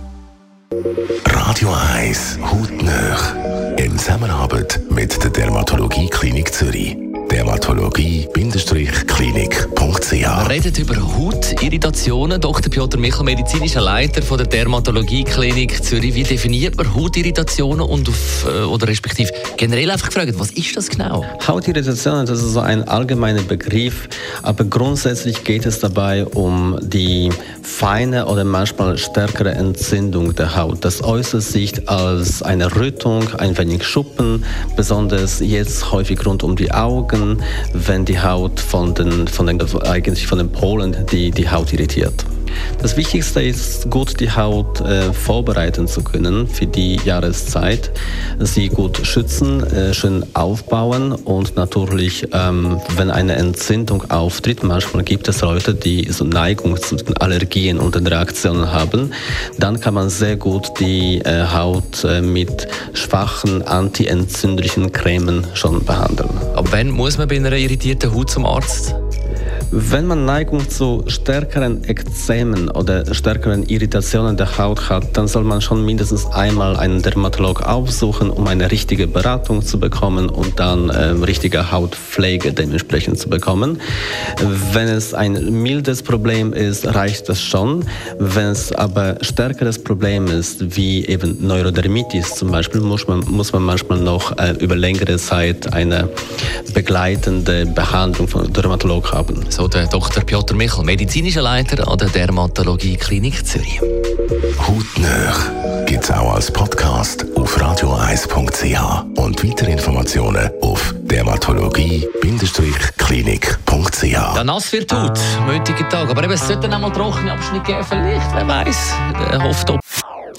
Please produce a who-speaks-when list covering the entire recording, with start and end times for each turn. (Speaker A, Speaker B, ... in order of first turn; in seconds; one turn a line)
Speaker A: 1.2-10.5
Speaker B: 10.2-21.3
Speaker C: 21.4-42.2
Speaker C: 42.8-66.5
Speaker B: 66.5-69.0
Speaker C: 69.7-83.8
Speaker C: 84.4-96.1
Speaker C: 96.7-99.5
Speaker B: 99.5-103.8
Speaker A: 104.6-114.3
Speaker B: 114.3-119.8